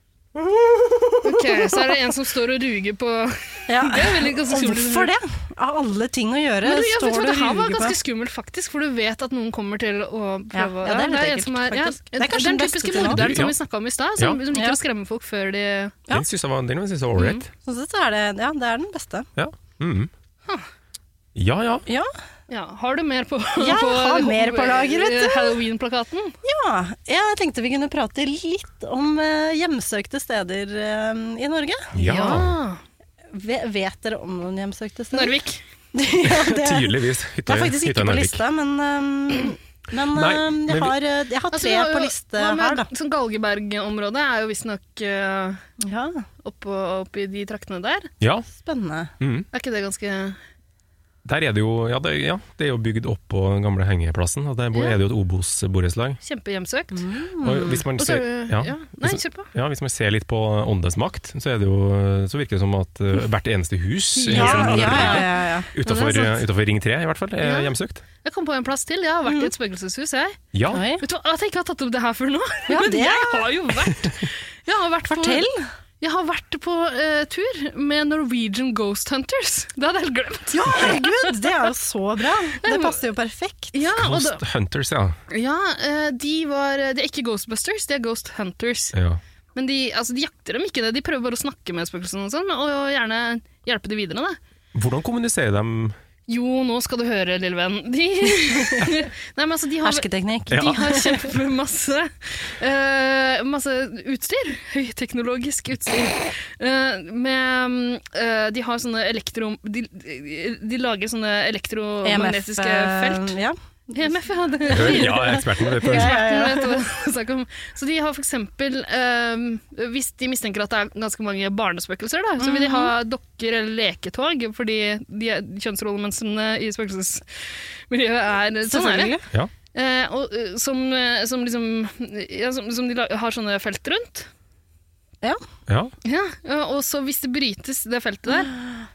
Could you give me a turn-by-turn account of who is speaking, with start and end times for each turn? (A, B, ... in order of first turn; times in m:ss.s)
0:00.4-0:02.0 A
0:01.2-0:05.1 B
0:03.7-0:08.0 A
0:06.6-0:16.0 B
0:10.5-0:13.3 A
0:13.0-0:13.5 C
0:14.5-0:14.8 A
0:16.1-0:17.5 C
0:17.2-0:17.4 B
0:17.6-0:19.3 A
0:19.4-0:20.1 C
0:21.3-0:21.9 C
0:22.5-0:26.4 B
0:23.6-0:25.6 A
0:26.4-0:32.4 A
0:31.9-0:32.6 C
0:32.0-0:32.8 B
0:33.3-0:35.3 A
0:35.1-0:35.6 B
0:35.9-0:42.9 A
0:36.2-0:38.4 C
0:40.1-0:40.9 C
0:41.5-0:45.6 B
0:45.8-0:46.2 A
0:46.4-0:48.1 B
0:48.2-0:48.5 C
0:48.5-0:49.1 A
0:49.2-0:49.5 C
0:49.5-0:50.4 B
0:51.2-0:56.2 C
0:54.7-0:55.0 B
0:56.2-0:57.0 B
0:56.9-0:57.8 A
0:57.4-1:08.0 C
0:58.0-0:59.5 B
1:04.2-1:05.3 B
1:04.3-1:06.2 A
1:05.9-1:06.3 B
1:07.4-1:10.5 B
1:09.2-1:09.5 A
1:10.5-1:10.8 C
1:10.7-1:11.0 A
1:11.0-1:15.4 B
1:12.7-1:13.5 A
1:15.1-1:15.7 A
1:16.0-1:21.6 B
1:20.5-1:23.8 A
1:22.6-1:23.0 B
1:23.7-1:24.4 B
1:24.0-1:25.2 C
1:25.3-1:28.9 B
1:28.9-1:29.2 C
1:29.5-1:34.4 B
1:34.7-1:36.0 C
1:36.3-1:53.4 B
1:39.8-1:41.3 A
1:52.0-1:56.8 A
1:54.0-2:09.2 B
1:54.7-1:56.2 C
2:02.4-2:02.9 A
2:08.6-2:09.2 A
2:09.7-2:14.3 B
2:15.7-2:15.9 C
2:16.0-2:18.6 B